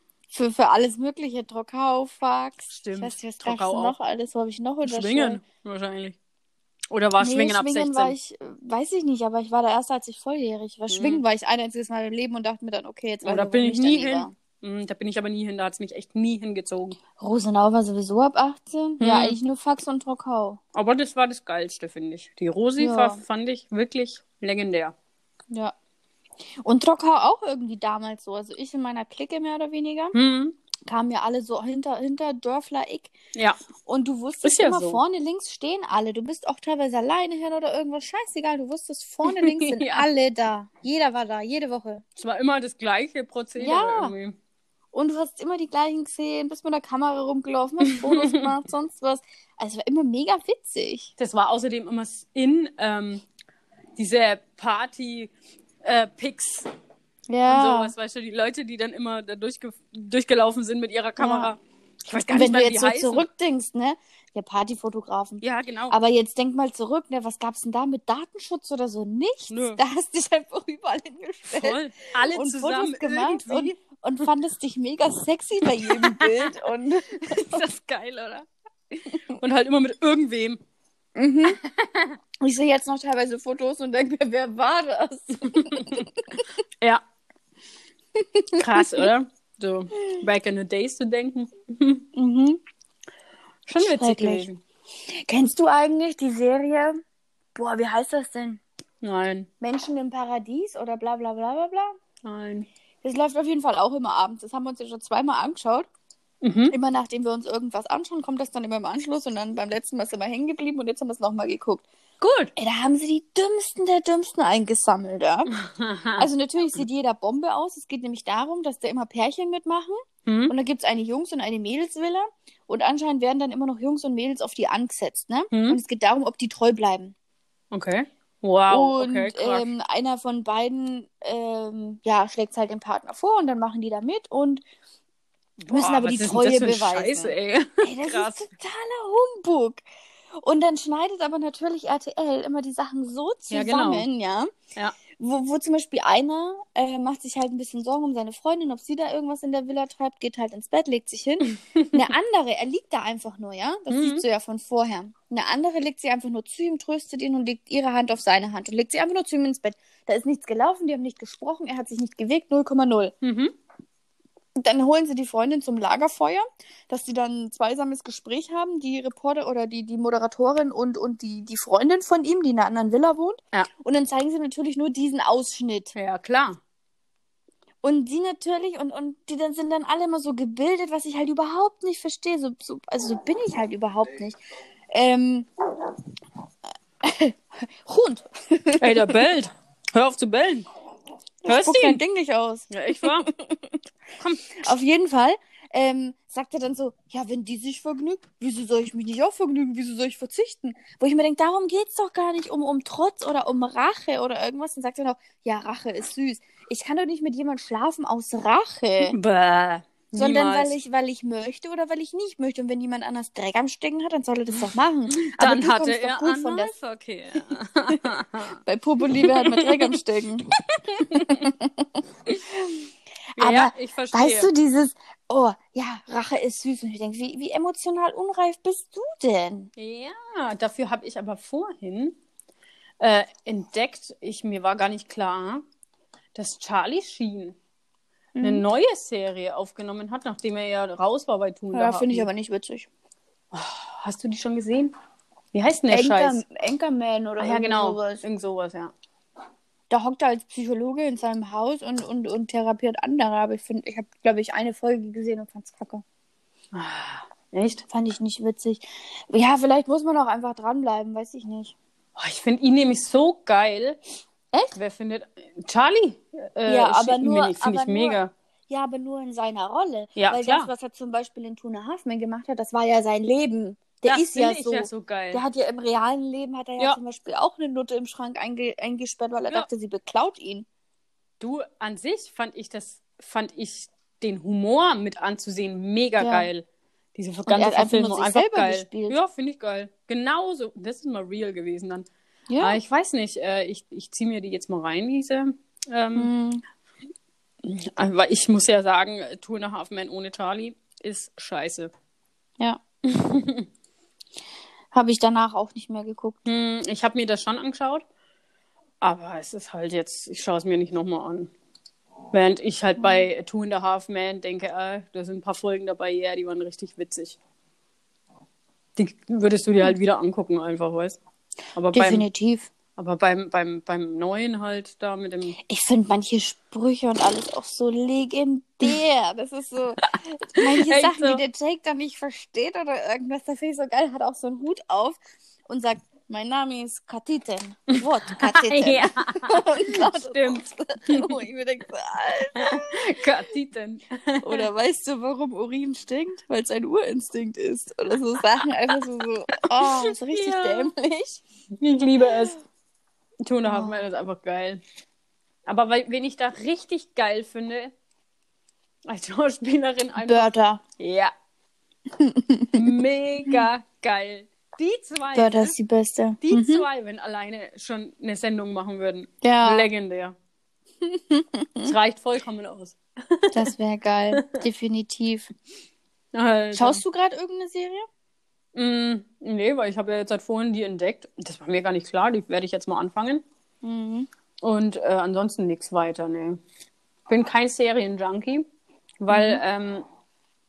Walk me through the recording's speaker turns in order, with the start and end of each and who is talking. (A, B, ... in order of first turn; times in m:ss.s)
0:00.3-0:05.4 A
0:02.7-0:04.0 B
0:04.8-0:06.2 B
0:06.9-0:08.1 B
0:07.2-0:14.3 A
0:10.9-0:11.2 B
0:13.2-0:17.0 B
0:17.2-0:20.6 A
0:19.0-0:19.4 B
0:20.7-0:25.0 B
0:22.8-0:23.2 A
0:26.6-0:30.2 A
0:30.1-0:30.6 B
0:30.9-0:33.1 A
0:33.4-0:33.6 B
0:33.8-0:42.0 A
0:34.4-0:35.0 B
0:39.2-0:40.1 B
0:42.2-0:44.4 B
0:43.6-0:44.1 A
0:44.9-0:51.1 A
0:47.8-0:48.4 B
0:51.2-0:53.2 B
0:54.0-0:55.3 B
0:55.8-0:56.7 B
0:57.3-0:57.9 A
0:57.5-1:03.3 B
1:01.2-1:01.5 A
1:02.3-1:11.8 A
1:05.4-1:06.0 B
1:09.5-1:09.8 B
1:11.5-1:13.8 B
1:12.3-1:17.6 A
1:15.7-1:18.5 B
1:19.0-1:20.6 B
1:21.2-1:21.6 A
1:21.5-1:22.1 B
1:22.4-1:26.4 A
1:25.6-1:26.1 B
1:28.2-1:29.1 A
1:28.6-1:32.1 B
1:32.2-1:32.6 A
1:33.7-1:34.6 B
1:33.8-1:34.5 A
1:35.1-1:37.0 A
1:37.6-1:38.6 A
1:39.0-1:39.5 B
1:39.6-1:42.0 A
1:42.2-1:42.7 B
1:43.0-1:45.9 A
1:46.4-1:46.8 B
1:46.7-1:51.8 A
1:52.2-1:52.5 B
1:52.6-1:55.5 A
1:55.5-1:56.3 B
1:56.2-2:07.2 A
2:00.3-2:00.5 B
2:05.5-2:05.8 B
2:07.7-2:09.7 B
2:08.7-2:14.6 A
2:15.6-2:18.4 B
2:15.7-2:19.8 A
2:20.4-2:24.5 A
2:23.5-2:24.1 B
2:25.1-2:43.1 A
2:31.7-2:31.9 B
2:33.9-2:34.2 B
2:43.2-2:43.5 B
2:44.6-2:55.9 A
2:55.9-2:56.6 B
2:57.8-3:04.4 A
3:04.9-3:05.5 A
3:07.0-3:09.2 A
3:08.8-3:10.7 B
3:11.4-3:13.8 A
3:11.5-3:12.0 B
3:12.7-3:13.3 B
3:14.2-3:14.6 B
3:14.6-3:29.2 A
3:29.0-3:30.8 B
3:30.2-3:36.7 A
3:35.1-3:38.6 B
3:38.7-3:40.4 A
3:39.1-3:40.0 B
3:40.7-3:41.5 B
3:41.1-3:49.7 A
3:43.4-3:44.5 B
3:49.8-3:52.2 B
3:53.0-3:55.6 B
3:56.4-3:57.6 B
3:58.4-3:58.6 A
3:58.4-4:02.3 B
4:01.7-4:02.9 A
4:03.5-4:04.9 B
4:05.5-4:06.4 B
4:05.9-4:08.2 A
4:07.4-4:08.9 B
4:09.9-4:16.0 A
4:16.7-4:17.8 B
4:17.9-4:21.8 A
4:22.2-4:24.0 B
4:24.7-4:28.3 B
4:26.7-4:28.2 A
4:28.7-4:40.7 A
4:30.2-4:30.7 B
4:34.0-4:35.4 B
4:41.4-4:52.1 B
4:46.2-4:46.5 A
4:47.5-4:49.2 A
4:52.5-4:52.8 A
4:52.6-4:56.3 B
4:56.2-4:56.6 A
4:57.6-5:01.9 B
5:03.1-5:03.7 B
5:04.9-5:06.4 A
5:06.5-5:08.0 B
5:09.0-5:11.5 B
5:12.3-5:17.4 B
5:13.0-5:13.2 A
5:19.0-5:21.2 B
5:21.8-5:22.3 B
5:21.9-5:22.7 A
5:23.0-5:25.6 B
5:25.7-5:43.1 A
5:30.0-5:31.4 B
5:37.9-5:41.4 B
5:42.6-5:44.7 B
5:44.4-5:51.4 A
5:49.6-5:50.9 B
5:51.8-5:52.6 B
5:53.4-5:54.8 B
5:53.7-5:54.1 A
5:55.7-5:57.9 B
5:59.1-6:01.3 B
6:00.2-6:00.8 A
6:02.2-6:02.8 A
6:02.7-6:05.8 B
6:05.4-6:06.8 A
6:06.4-6:10.4 B
6:09.4-6:09.9 A
6:11.0-6:11.9 A
6:11.8-6:13.7 B
6:13.5-6:15.5 A
6:14.4-6:14.6 B
6:16.3-6:17.0 B
6:16.8-6:18.0 A
6:18.8-6:23.4 B
6:23.8-6:24.3 A
6:24.6-6:26.6 B
6:27.3-6:28.7 B
6:29.2-6:30.0 B
6:29.3-6:29.6 A